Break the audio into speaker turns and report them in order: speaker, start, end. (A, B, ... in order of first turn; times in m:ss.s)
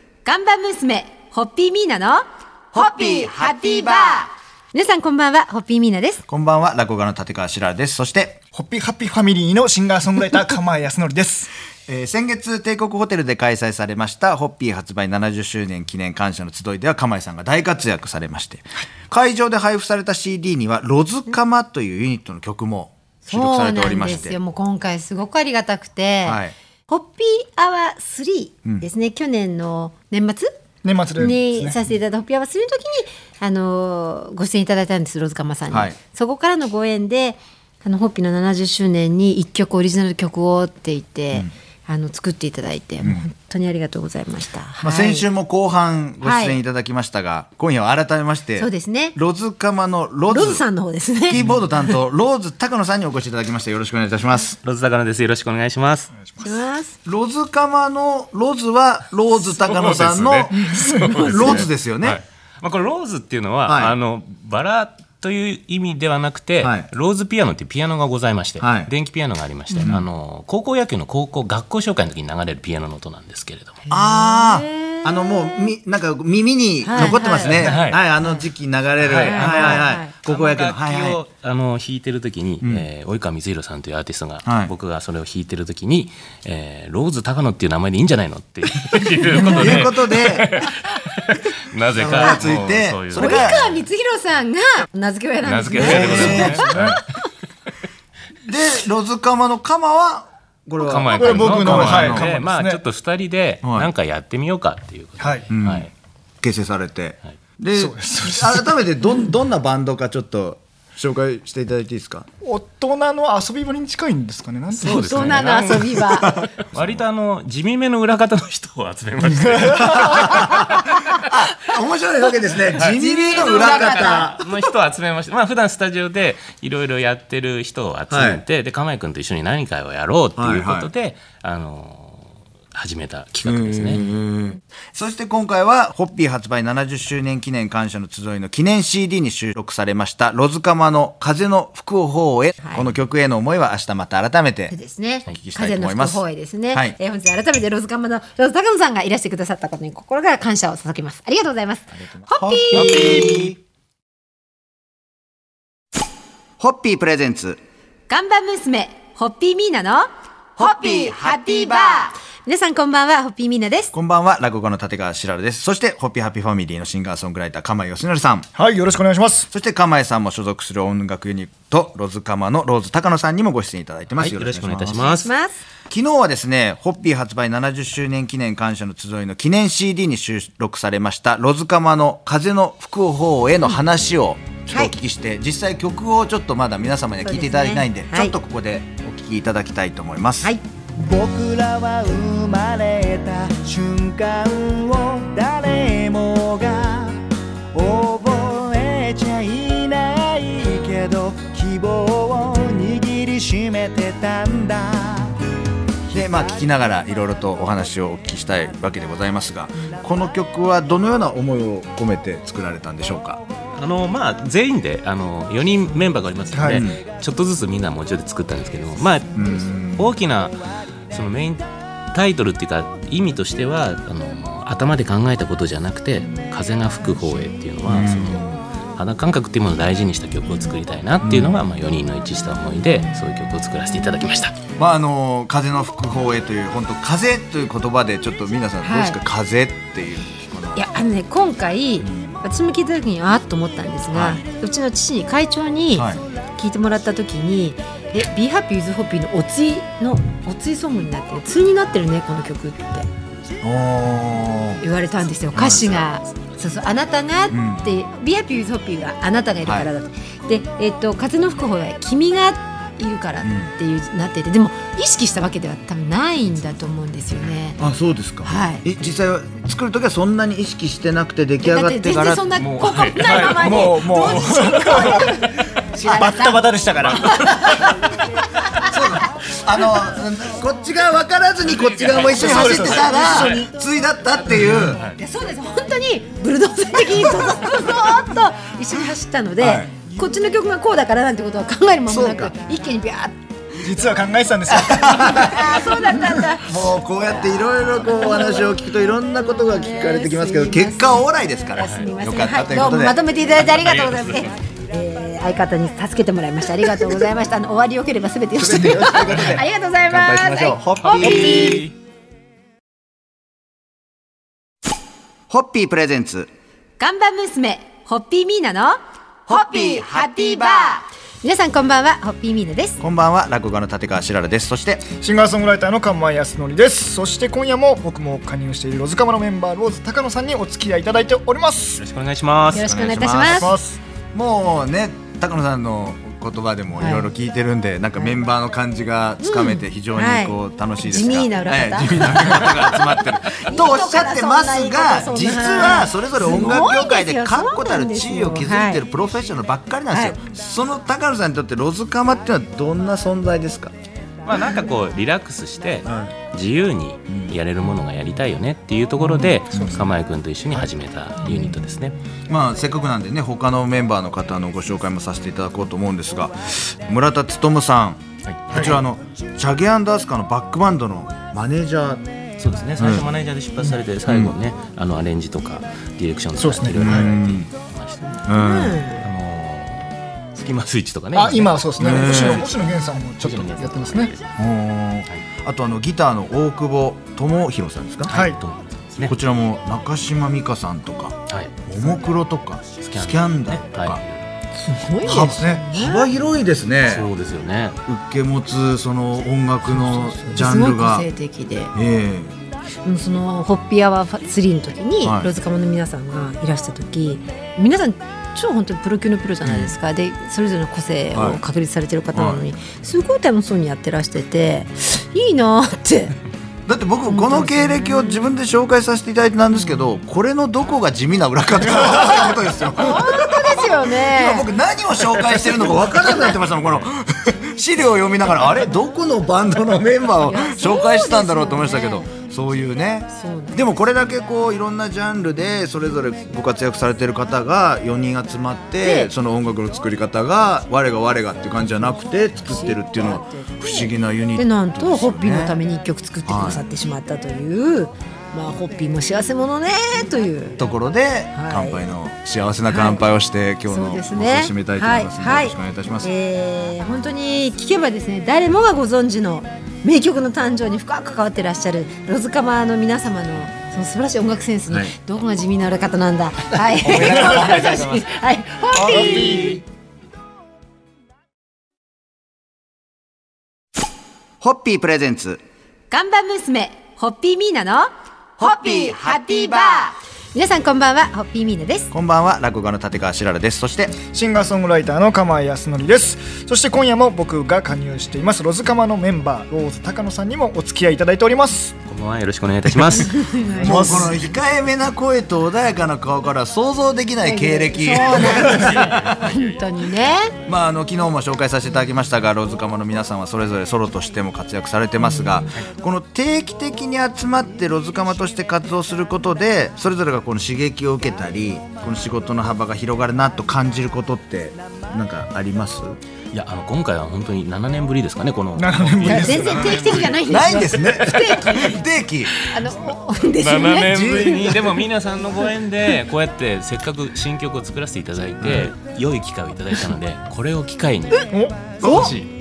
0:00.2-0:06.2 A
0:06.3-0:08.4 B
0:08.5-0:11.5 C
0:11.9-0:24.4 B
0:23.3-0:30.5 A
0:26.2-0:26.5 B
0:30.8-0:31.8 C
0:31.2-0:45.3 A
0:35.7-0:36.0 B
0:43.0-0:43.3 B
0:44.8-0:50.6 B
0:46.2-0:46.6 A
0:48.6-0:49.2 A
0:50.3-0:51.4 A
0:51.2-0:54.6 B
0:54.6-0:56.1 D
0:56.2-0:56.6 C
0:56.4-0:57.0 A
0:57.0-1:02.2 B
0:59.4-1:13.8 D
1:00.6-1:01.7 A
1:03.7-1:03.9 B
1:06.6-1:06.9 B
1:08.6-1:08.9 B
1:13.9-1:15.7 A
1:13.9-1:21.2 B
1:16.8-1:17.8 A
1:17.1-1:18.0 D
1:19.0-1:33.7 D
1:19.1-1:20.1 A
1:24.4-1:24.7 B
1:29.3-1:30.6 B
1:31.9-1:33.6 B
1:33.2-1:37.0 A
1:35.4-1:37.0 D
1:35.8-1:37.0 B
1:36.1-1:37.0 C
1:38.5-1:42.3 B
1:40.8-1:45.9 D
1:41.1-1:42.8 C
1:43.6-1:43.9 B
1:45.2-1:45.5 C
1:45.5-1:45.9 B
1:46.4-1:52.3 B
1:47.8-1:48.6 C
1:52.4-1:55.4 C
1:54.8-1:56.1 D
1:54.8-1:56.4 A
1:56.1-1:56.9 B
1:56.6-2:01.3 D
1:59.2-1:59.9 C
1:59.9-2:04.4 B
2:02.8-2:14.0 D
2:03.0-2:04.3 A
2:08.1-2:08.4 B
2:10.4-2:10.9 B
2:13.4-2:24.8 B
2:24.7-2:33.5 A
2:25.3-2:27.0 B
2:32.3-2:33.6 B
2:36.6-2:37.6 B
2:38.1-2:43.9 A
2:43.9-2:48.5 B
2:48.6-2:49.5 C
2:49.5-2:55.1 B
2:54.1-2:55.3 D
2:55.2-2:55.6 A
2:55.9-3:10.5 B
3:04.7-3:05.0 A
3:07.2-3:08.4 A
3:11.0-3:17.2 E
3:17.7-3:25.4 E
3:26.1-3:33.4 B
3:33.8-3:40.6 D
3:36.5-3:36.8 C
3:36.6-3:37.0 B
3:39.4-3:40.1 B
3:41.1-3:54.6 D
3:47.9-3:48.6 B
3:51.2-3:51.6 B
3:54.8-4:00.8 B
3:58.8-3:59.2 A
4:00.8-4:13.1 A
4:02.0-4:02.3 B
4:04.1-4:04.4 B
4:06.0-4:06.2 B
4:13.6-4:14.8 B
4:14.8-4:27.8 A
4:15.5-4:15.9 B
4:15.5-4:16.1 D
4:17.5-4:17.8 B
4:19.6-4:19.9 B
4:23.4-4:23.7 B
4:27.8-4:32.5 B
4:28.4-4:28.8 A
4:31.6-4:37.8 A
4:32.6-4:35.6 D
4:33.5-4:35.3 C
4:36.0-4:37.5 C
4:38.8-4:45.0 B
4:41.8-4:43.5 D
4:42.3-4:43.7 C
4:44.6-4:45.2 D
4:45.2-4:53.4 A
4:49.6-4:49.9 B
4:52.1-4:52.5 B
4:53.8-4:56.2 C
4:54.7-5:11.8 A
4:54.8-4:55.8 B
4:56.6-5:03.2 B
5:03.6-5:04.5 D
5:08.6-5:11.8 B
5:11.0-5:11.9 D
5:11.3-5:11.8 C
5:15.5-5:16.5 B
5:17.0-5:23.0 A
5:23.0-5:25.1 B
5:25.1-5:32.0 C
5:32.0-5:32.9 D
5:32.7-5:33.7 A
5:32.7-5:33.7 B
5:33.5-5:34.0 C
5:34.3-5:53.9 B
5:37.0-5:37.3 A
5:39.4-5:42.4 A
5:43.7-5:49.0 A
5:50.1-5:50.4 A
5:54.5-6:02.2 D
5:56.0-5:56.3 B
5:59.7-6:00.1 B
6:02.5-6:12.2 B
6:08.5-6:08.9 D
6:12.6-6:18.4 D
6:13.0-6:13.3 B
6:14.3-6:14.5 B
6:16.6-6:17.3 C
6:17.0-6:17.7 B
6:18.4-6:19.0 B
6:18.5-6:19.3 A
6:19.2-6:24.5 D
6:21.4-6:24.3 C
6:22.0-6:22.7 B
6:24.6-6:28.3 B
6:28.3-6:28.6 C
6:28.3-6:29.3 D
6:29.2-6:34.2 B
6:31.5-6:32.0 D
6:33.0-6:34.4 D
6:34.8-6:36.3 A
6:35.2-6:37.3 B
6:35.2-6:35.8 C
6:37.1-6:38.0 D
6:38.1-6:41.3 B
6:40.1-6:40.4 C
6:40.5-6:41.9 A
6:42.0-6:42.6 B
6:43.0-6:56.4 A
6:45.2-6:45.5 B
6:49.6-6:50.0 B
6:51.3-6:51.6 B
6:52.3-6:52.6 B
6:56.9-7:25.8 B
6:57.3-6:58.5 A
6:59.7-7:00.0 A
7:03.0-7:04.7 A
7:06.0-7:06.3 A
7:10.4-7:12.3 A
7:13.3-7:13.9 A
7:19.0-7:19.3 A
7:22.6-7:30.8 A
7:26.5-7:26.8 B
7:30.8-7:36.3 B
7:31.5-7:32.0 A
7:32.9-7:33.2 A
7:33.9-7:49.8 A
7:47.1-7:48.0 C
7:47.2-7:47.5 B
7:48.9-7:49.8 B
7:54.6-7:55.6 B
7:56.1-8:02.1 A
8:02.1-8:04.2 B
8:04.2-8:11.9 C
8:12.1-8:13.6 D
8:13.2-8:14.2 A
8:13.8-8:19.4 B
8:13.8-8:14.3 C
8:17.4-8:20.5 A
8:18.9-8:19.6 D
8:20.7-8:36.2 B
8:25.2-8:25.8 A
8:36.5-8:40.4 D
8:38.8-8:39.8 C
8:39.2-8:42.0 A
8:40.4-8:42.6 B
8:42.7-8:44.6 A
8:43.6-8:52.5 D
8:44.1-8:44.8 B
8:51.5-8:52.3 C
8:52.0-8:52.4 B
8:52.0-8:52.3 A